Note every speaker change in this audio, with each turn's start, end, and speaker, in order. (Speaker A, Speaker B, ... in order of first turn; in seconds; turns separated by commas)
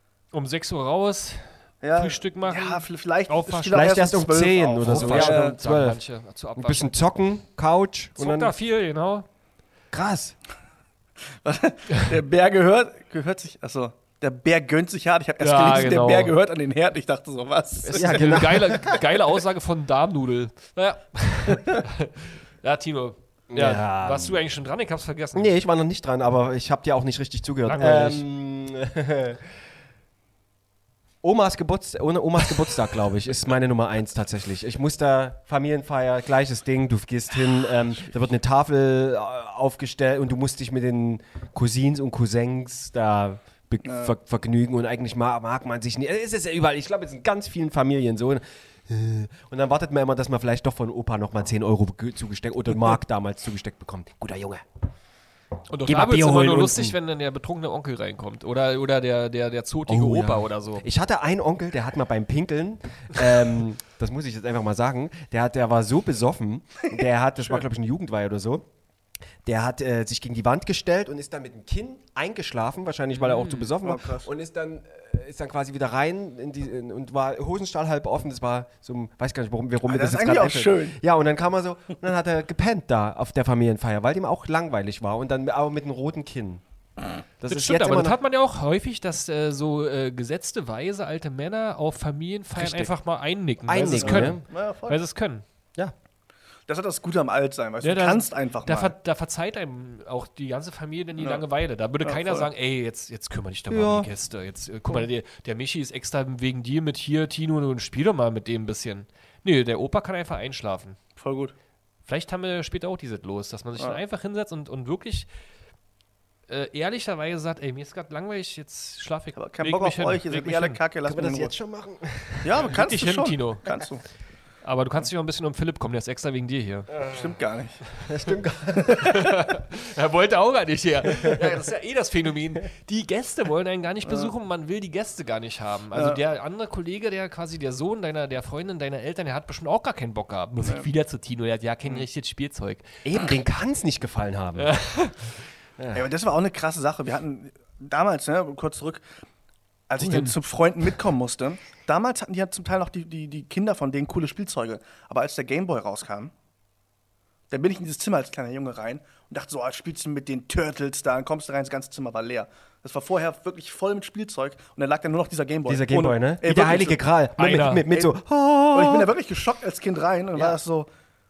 Speaker A: 0.3-3.8, Speaker B: 1.8-5.5, Speaker C: 3.7-6.0, Speaker A: 4.8-7.0, Speaker C: 6.5-8.5, Speaker A: 8.2-9.3, Speaker C: 9.9-10.3, Speaker B: 11.4-18.4, Speaker A: 15.4-16.3, Speaker A: 17.8-25.5, Speaker C: 17.9-19.0, Speaker C: 23.5-24.4, Speaker C: 25.3-29.4, Speaker A: 27.6-28.2, Speaker C: 31.2-54.6, Speaker B: 43.8-44.1, Speaker A: 55.7-60.9, Speaker C: 55.8-57.0, Speaker C: 59.9-68.6, Speaker C: 69.4-86.6, Speaker A: 73.2-73.7, Speaker B: 73.8-74.3, Speaker B: 79.8-81.0, Speaker C: 87.4-88.2, Speaker A: 87.5-95.4, Speaker C: 92.5-92.9, Speaker C: 93.7-94.4, Speaker B: 93.9-95.0, Speaker B: 96.7-98.9, Speaker A: 97.8-111.0, Speaker B: 101.2-101.4, Speaker B: 102.0-102.5, Speaker C: 103.7-104.1, Speaker B: 111.2-111.5, Speaker A: 112.0-115.3, Speaker A: 116.5-120.8, Speaker B: 119.3-121.5, Speaker C: 121.0-122.7, Speaker B: 122.4-124.0, Speaker A: 122.6-123.7, Speaker A: 124.6-126.9, Speaker C: 126.9-127.2, Speaker B: 127.0-127.8, Speaker C: 128.0-129.2, Speaker B: 128.9-129.1, Speaker A: 129.0-142.9, Speaker C: 131.2-131.5, Speaker B: 134.0-134.3, Speaker B: 135.9-136.2, Speaker B: 140.6-140.9, Speaker C: 143.0-144.7, Speaker A: 144.6-145.3, Speaker C: 145.8-146.1, Speaker B: 145.9-149.0, Speaker B: 149.9-156.3, Speaker A: 150.0-150.3, Speaker B: 157.5-167.0, Speaker C: 165.7-169.1, Speaker A: 167.4-167.9, Speaker B: 167.9-168.2, Speaker B: 168.7-170.9